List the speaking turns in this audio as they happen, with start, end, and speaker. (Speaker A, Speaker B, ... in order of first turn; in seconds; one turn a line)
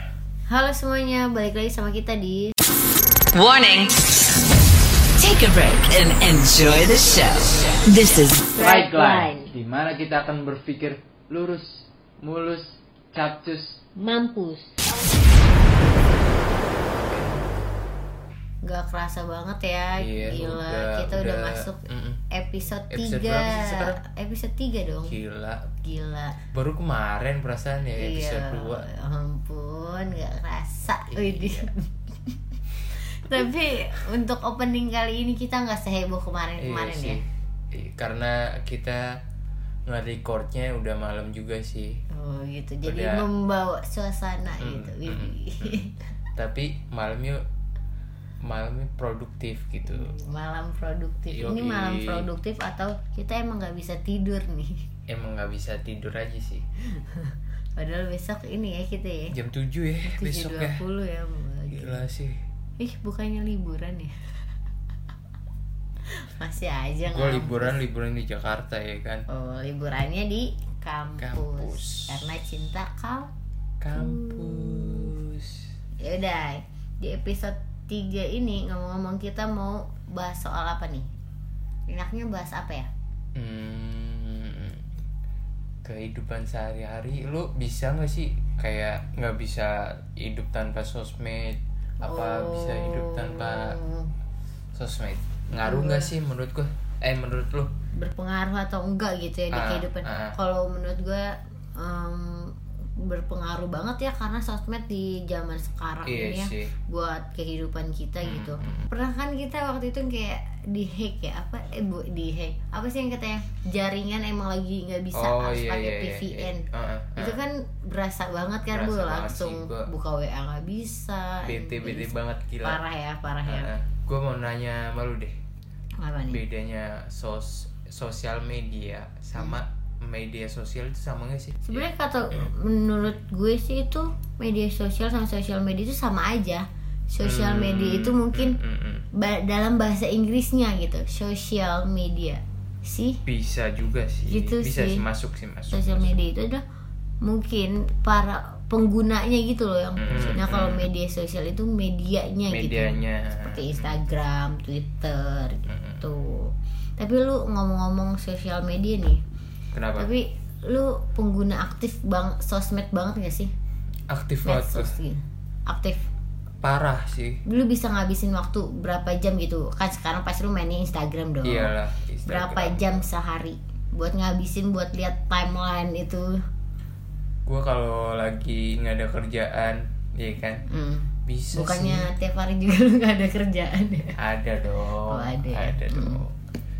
Speaker A: 0.5-2.5
Speaker B: 3.3-4.0
Speaker B: 5.2-9.4
Speaker C: 8.6-13.8
Speaker A: 14.0-14.7
Speaker C: 16.9-17.4
Speaker A: 18.6-25.1
Speaker C: 20.0-22.2
Speaker C: 22.9-24.0
Speaker C: 25.0-25.7
Speaker A: 25.8-26.4
Speaker C: 26.5-28.9
Speaker A: 28.0-37.2
Speaker C: 31.1-31.7
Speaker C: 36.6-39.2
Speaker C: 39.9-42.0
Speaker A: 42.1-46.0
Speaker C: 42.8-43.3
Speaker C: 44.6-45.8
Speaker C: 46.3-47.4
Speaker C: 48.4-50.1
Speaker A: 49.9-54.8
Speaker C: 51.3-52.3
Speaker C: 55.1-56.6
Speaker A: 56.9-59.3
Speaker C: 59.3-60.8
Speaker A: 60.0-62.0
Speaker C: 61.7-62.4
Speaker A: 62.8-64.3
Speaker A: 66.1-67.8
Speaker C: 67.1-69.2
Speaker A: 69.3-73.3
Speaker C: 71.2-72.2
Speaker C: 73.8-75.6
Speaker A: 73.9-75.1
Speaker A: 76.0-81.1
Speaker A: 81.9-82.9
Speaker C: 83.3-84.9
Speaker C: 85.8-93.8
Speaker A: 92.0-94.1
Speaker C: 94.7-97.7
Speaker A: 95.6-96.1
Speaker A: 98.0-116.6
Speaker C: 99.5-100.3
Speaker C: 106.0-106.7
Speaker C: 108.2-108.9
Speaker C: 115.1-117.4
Speaker A: 117.2-123.7
Speaker C: 118.7-119.9
Speaker C: 121.4-122.8
Speaker C: 123.5-125.4
Speaker A: 126.0-126.4
Speaker C: 126.3-132.5
Speaker A: 131.6-138.6
Speaker C: 137.2-139.1
Speaker A: 139.1-143.2
Speaker C: 143.2-146.2
Speaker A: 144.3-145.0
Speaker A: 145.7-146.6
Speaker A: 147.2-159.2
Speaker C: 150.0-150.9
Speaker C: 152.5-154.0
Speaker C: 155.7-156.1
Speaker C: 159.7-160.1
Speaker A: 159.9-163.5
Speaker C: 164.1-165.0
Speaker A: 164.4-166.0
Speaker C: 166.6-167.4
Speaker A: 167.4-171.7
Speaker C: 171.4-173.0
Speaker A: 172.2-176.4
Speaker C: 177.4-180.6
Speaker A: 180.7-184.2
Speaker C: 181.2-182.1
Speaker C: 184.2-186.3
Speaker A: 185.1-186.2